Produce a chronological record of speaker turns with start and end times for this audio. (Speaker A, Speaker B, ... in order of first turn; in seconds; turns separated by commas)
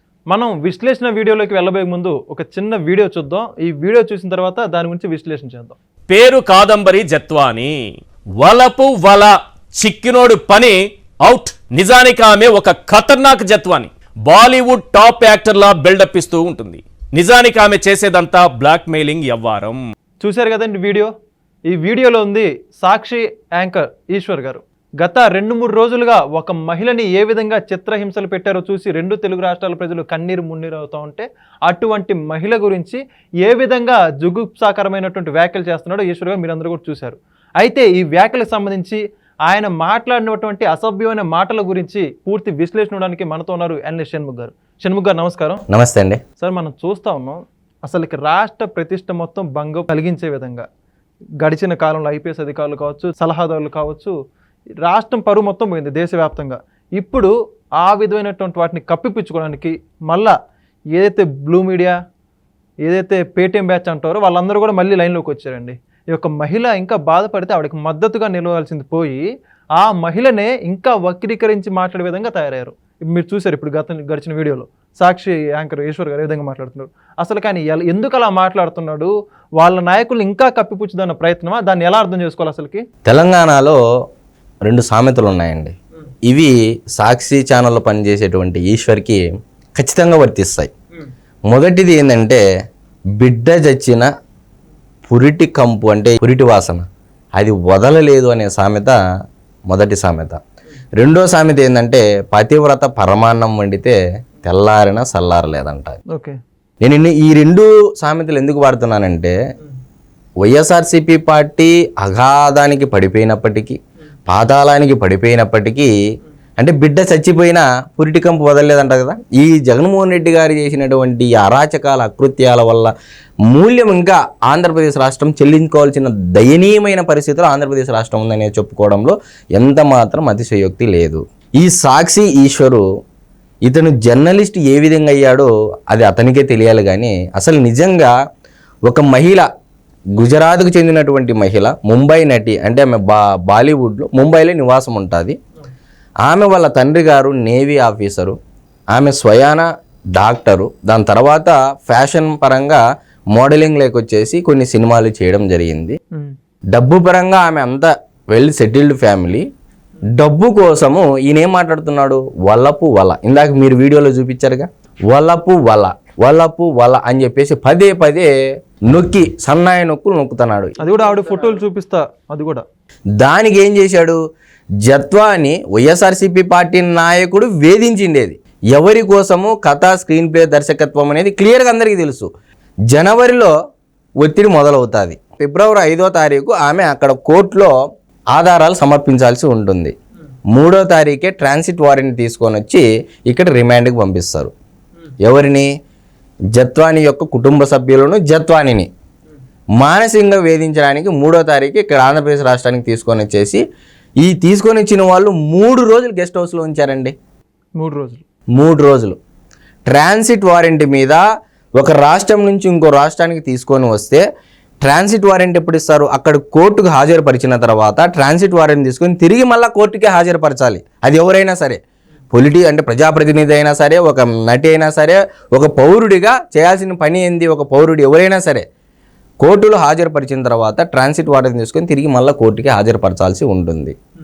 Speaker A: 0.3-5.8, Speaker B: 6.1-7.8, Speaker B: 8.4-19.8, Speaker A: 20.2-21.1, Speaker A: 21.7-45.6, Speaker C: 45.7-46.2, Speaker A: 46.4-50.6, Speaker A: 51.4-54.1, Speaker A: 54.8-60.3, Speaker A: 60.9-61.9, Speaker A: 62.8-69.2, Speaker A: 69.8-82.8, Speaker C: 83.0-83.8, Speaker C: 84.6-85.7, Speaker C: 86.2-90.7, Speaker C: 91.5-92.4, Speaker C: 93.2-94.1, Speaker C: 95.1-96.8, Speaker C: 97.4-99.0, Speaker C: 99.7-100.4, Speaker C: 101.0-106.0, Speaker A: 106.1-106.4, Speaker C: 106.8-109.3, Speaker C: 110.4-115.9, Speaker C: 116.6-122.9, Speaker C: 123.5-132.8, Speaker C: 133.6-138.1, Speaker C: 138.8-139.5, Speaker C: 140.2-145.3, Speaker C: 146.2-148.3, Speaker C: 148.9-155.9, Speaker C: 156.7-159.4, Speaker C: 160.1-168.3, Speaker C: 168.9-170.8, Speaker A: 170.8-172.6, Speaker C: 173.2-174.2, Speaker C: 174.8-182.3, Speaker C: 182.9-183.5, Speaker C: 184.2-187.7, Speaker C: 188.3-189.9, Speaker C: 190.5-194.5, Speaker C: 195.2-195.7, Speaker C: 196.5-198.9, Speaker C: 199.8-203.6, Speaker C: 204.2-207.1, Speaker A: 207.8-208.2, Speaker C: 208.6-209.2, Speaker C: 209.9-211.2, Speaker C: 211.8-214.2, Speaker C: 214.8-221.8, Speaker C: 222.3-228.6, Speaker C: 229.4-233.9